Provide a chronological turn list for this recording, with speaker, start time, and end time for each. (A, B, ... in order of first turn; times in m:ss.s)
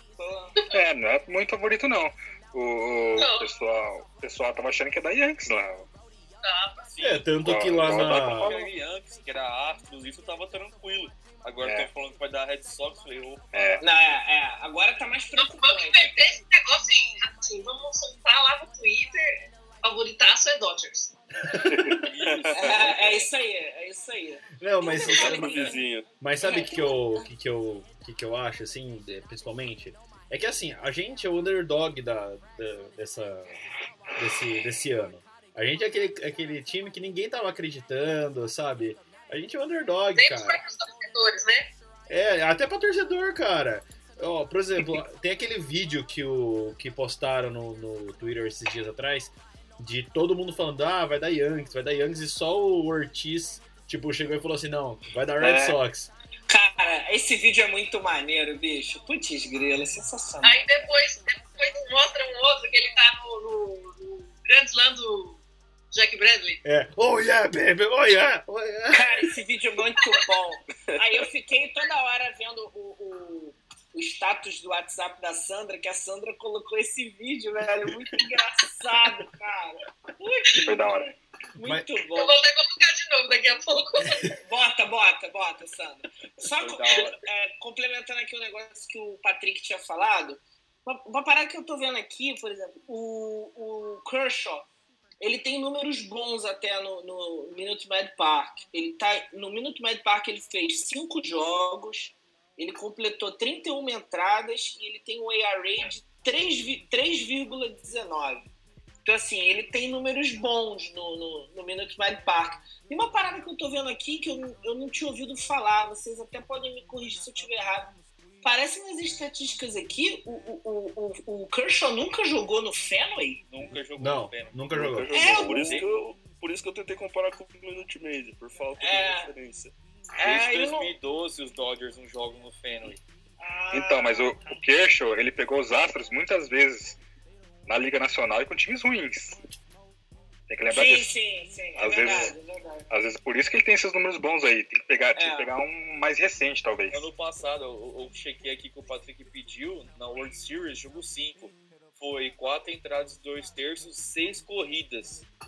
0:00.2-0:00.6 A
0:00.7-0:05.9 B
0:03.1-0:03.5 C
0:06.4-0:06.8 C
0:06.9-0:13.8 D
0:07.0-0:08.6 E
0:07.4-0:08.6 B
0:11.6-0:11.9 B
0:13.5-0:13.8 B
0:13.8-0:16.4 A
0:15.4-0:21.1 C
0:21.5-0:21.9 E
0:21.7-0:23.0 F
0:22.0-0:23.3 D
0:22.5-0:25.8 A
0:24.6-0:25.7 E
0:24.9-0:26.1 F
0:26.2-0:33.6 E
0:26.4-0:27.3 A
0:34.2-0:40.6 E
0:40.2-0:41.7 C
0:42.1-0:56.1 E
0:55.4-0:55.8 B
0:56.5-1:00.9 A
1:00.4-1:05.4 C
1:05.9-1:06.6 C
1:06.6-1:09.2 E
1:08.9-1:22.4 A
1:20.6-1:21.1 B
1:21.6-1:21.9 E
1:22.1-1:24.4 C
1:24.4-1:34.7 A
1:26.6-1:27.2 D
1:35.2-1:48.5 A
1:49.0-2:03.4 A
2:03.5-2:06.0 D
2:04.0-2:05.2 E
2:04.7-2:09.7 F
2:05.1-2:05.7 A
2:08.8-2:09.3 A
2:10.2-2:10.9 A
2:10.2-2:13.0 D
2:13.4-2:14.6 A
2:13.7-2:17.0 B
2:17.7-2:19.4 B
2:20.5-2:21.1 B
2:20.7-2:22.9 A
2:21.8-2:22.4 B
2:22.9-2:27.1 B
2:25.2-2:25.5 A
2:26.9-2:35.3 D